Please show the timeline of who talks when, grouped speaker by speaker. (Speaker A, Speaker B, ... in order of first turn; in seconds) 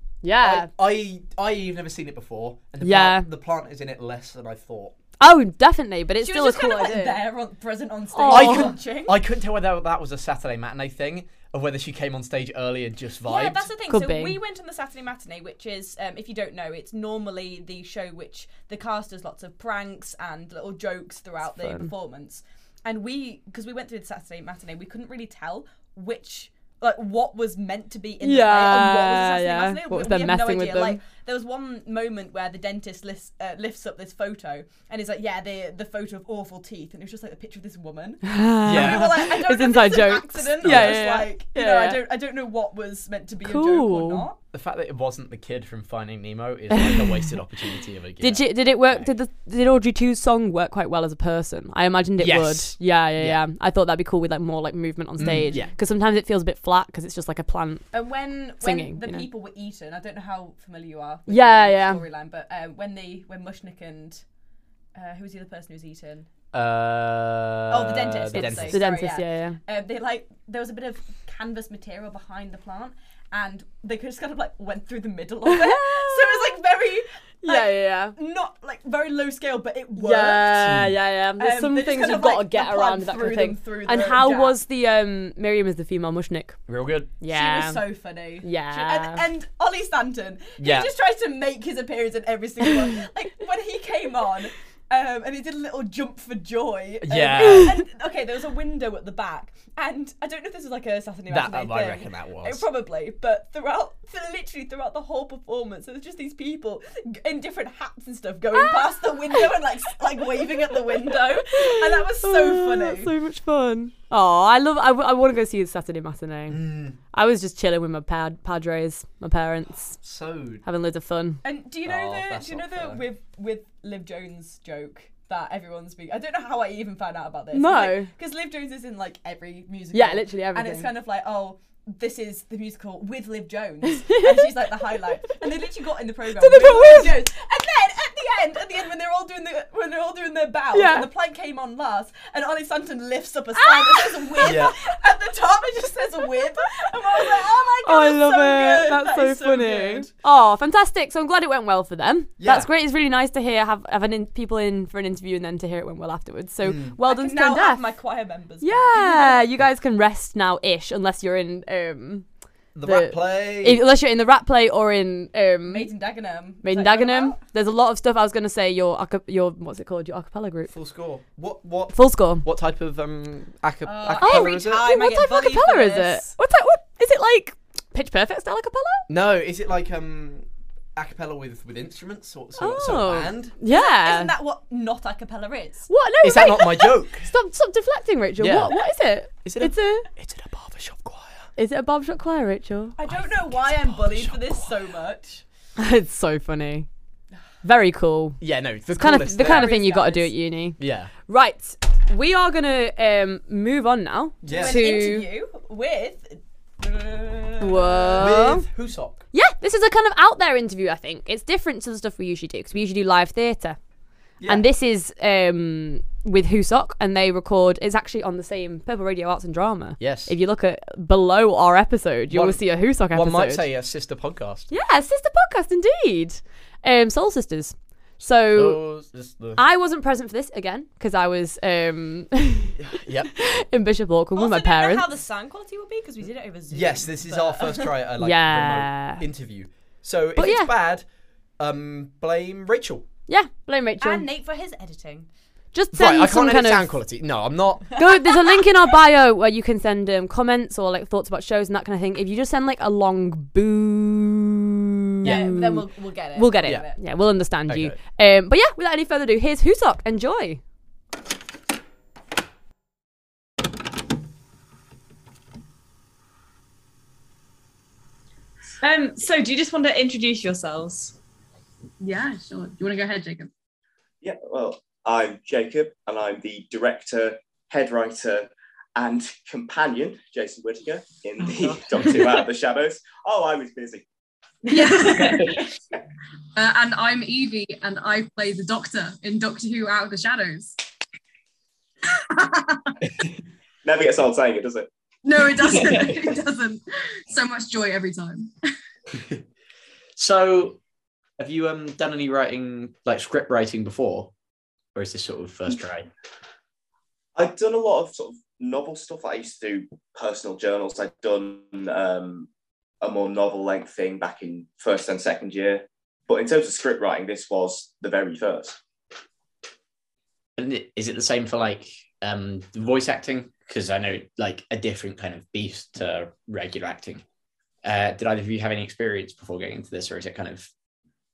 Speaker A: 0.2-0.7, 2.8-3.3, 5.2-7.2, 8.1-8.7, 13.9-14.4, 21.6-21.9, 28.2-31.0, 38.3-42.0, 43.4-44.2, 46.8-47.2, 48.2-57.9, 58.6-59.3, 61.3-62.0, 68.3-69.6, 75.5-76.5, 77.4-78.2, 80.0-86.6, 87.2-87.8, 88.4-89.2, 111.4-120.0, 120.6-121.4, 127.5-128.1, 129.9-130.9, 134.0-134.4, 136.4-137.2, 140.7-141.1, 143.6-143.9, 147.8-157.9, 158.6-162.3, 162.8-165.9, 166.6-170.7, 171.9-172.5, 174.2-179.1, 182.6-184.3, 185.9-190.1, 191.6-192.9, 195.8-196.9, 197.6-205.3, 207.6-208.7, 209.3-213.8, 214.4-223.7, 224.7-228.9, 229.6-232.8, 233.4-235.1, 238.2-239.2, 240.4-240.7, 243.3-244.3, 245.7-247.0, 248.0-254.7, 255.2-260.6
Speaker B: 0.4-5.0, 8.3-13.7, 38.6-39.3, 40.6-41.0, 44.5-49.1, 52.2-53.4, 55.2-55.7, 66.5-68.8, 86.7-87.1, 90.6-90.9, 97.0-97.8, 101.3-102.6, 116.5-117.0, 120.0-120.6, 121.8-123.0, 144.4-144.8, 152.4-152.7, 156.6-157.0, 162.7-163.8, 170.7-174.9, 179.1-183.5, 186.2-187.3, 188.4-188.7, 189.3-191.5, 193.1-194.8, 198.4-199.7, 200.8-201.1, 204.4-204.8, 208.2-209.2, 214.4-214.7, 220.0-220.3, 222.3-224.7, 228.5-229.6, 232.8-233.4, 236.7-241.1, 241.6-243.1, 245.9-248.0, 255.2-255.6, 257.7-258.0
Speaker C: 6.2-9.2, 13.3-44.4, 57.9-64.2, 65.0-66.3, 67.7-80.8, 81.4-84.6, 87.3-113.1, 121.4-150.1, 157.1-159.4, 165.7-167.4, 173.8-176.3, 183.7-185.9, 193.0-195.4, 199.4-200.3, 204.4-208.2, 234.3-237.9, 244.0-245.3, 255.2-257.0
Speaker D: 268.8-271.2, 281.4-282.4, 284.7-285.6
Speaker E: 272.0-273.5, 284.7-285.6, 286.5-290.8, 292.1-292.9, 295.2-298.5
Speaker F: 274.2-284.1, 293.8-294.9, 307.4-312.5, 313.0-318.8
Speaker G: 300.2-300.8, 301.4-304.3, 304.9-306.1, 320.6-327.2, 327.8-330.7